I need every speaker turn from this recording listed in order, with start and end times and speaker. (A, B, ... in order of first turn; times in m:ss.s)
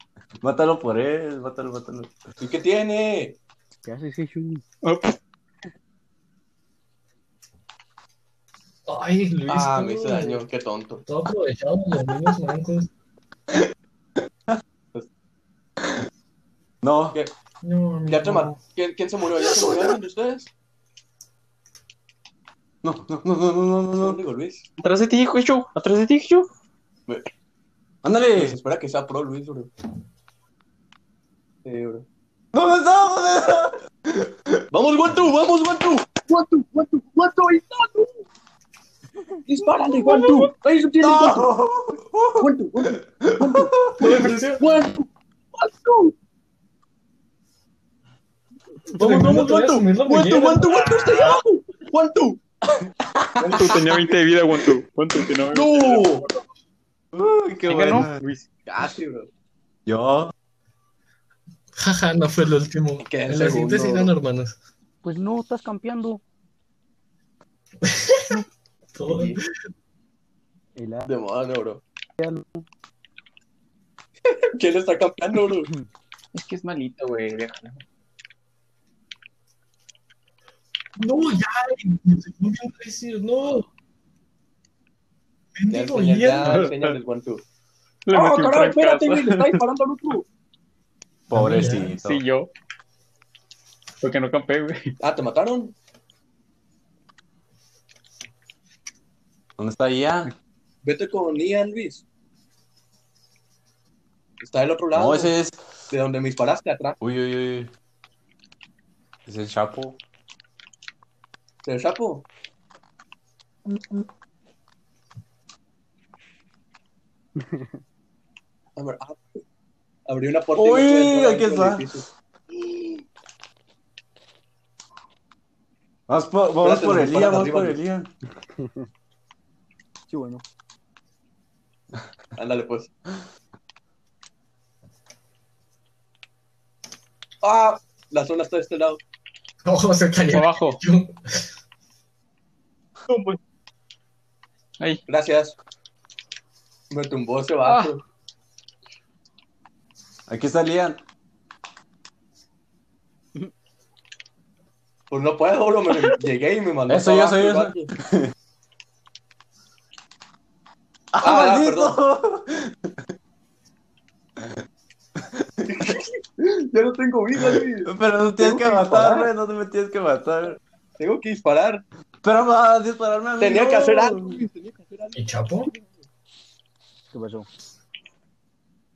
0:00.4-0:02.2 A
0:02.4-0:03.4 B
0:03.8-0:04.6 C
0:04.8-0:05.2 D
0:08.9-0:10.5 E
0:09.5-0:11.0 B
0:11.0-0:12.9 E
0:16.8-0:17.2 A
0:17.6-0:18.6 E
0:18.1-0:20.5 B
0:22.8-0:24.2 A
0:24.0-0:24.7 B
0:24.8-0:26.5 D
0:28.0-0:28.6 A
0:28.3-0:29.7 B
0:31.6-0:32.1 B
0:32.5-0:34.6 A
0:34.7-0:38.2 B
0:39.5-0:41.5 B
0:40.0-0:40.4 D
0:41.0-0:44.0 A
0:42.4-0:46.1 B
0:44.0-0:44.7 E
0:48.9-0:52.4 B
0:48.9-0:51.1 E
0:53.0-0:53.8 A
0:53.4-0:54.1 B
0:53.5-0:56.4 D
0:55.5-0:56.3 B
0:57.1-0:58.2 A
0:57.7-0:58.5 D
0:58.7-0:59.3 B
0:59.9-1:00.3 A
1:01.8-1:04.6 E
1:03.0-1:04.1 B
1:05.0-1:06.2 C
1:07.8-1:08.4 E
1:09.0-1:09.4 E
1:09.0-1:09.4 B
1:10.8-1:11.1 C
1:11.1-1:11.8 B
1:12.2-1:12.6 C
1:14.5-1:15.7 B
1:16.3-1:17.8 D
1:21.0-1:23.7 E
1:25.6-1:26.7 E
1:25.7-1:27.4 B
1:26.5-1:26.9 D
1:28.1-1:29.6 D
1:28.1-1:30.3 B
1:31.3-1:32.2 A
1:31.3-1:31.9 E
1:32.0-1:32.5 D
1:34.0-1:35.0 D
1:35.0-1:35.8 B
1:39.6-1:40.3 A
1:40.8-1:42.0 B
1:44.4-1:45.3 B
1:44.9-1:45.6 A
1:45.9-1:47.0 B
1:47.0-1:47.7 A
1:49.3-1:50.0 A
1:51.6-1:52.2 B
1:57.4-1:57.8 C
1:58.8-1:59.2 B
2:00.1-2:02.0 B
2:00.6-2:01.9 A
2:06.1-2:08.1 A
2:06.6-2:07.8 B
2:08.6-2:08.9 C
2:10.1-2:10.4 C
2:12.4-2:12.9 B
2:17.4-2:19.0 B
2:19.6-2:21.5 E
2:20.3-2:20.8 D
2:23.1-2:23.4 D
2:25.1-2:25.6 B
2:26.9-2:28.0 B
2:27.6-2:27.9 D
2:30.3-2:31.0 A
2:35.1-2:37.9 B
2:36.9-2:38.3 A
2:41.1-2:43.0 A
2:41.2-2:42.0 B
2:45.2-2:46.0 A
2:45.7-2:49.3 B
2:47.4-2:50.6 A
2:51.0-2:51.8 B
2:52.2-2:54.4 A
2:53.4-2:56.0 B
2:55.2-2:55.7 E
2:57.1-2:57.5 C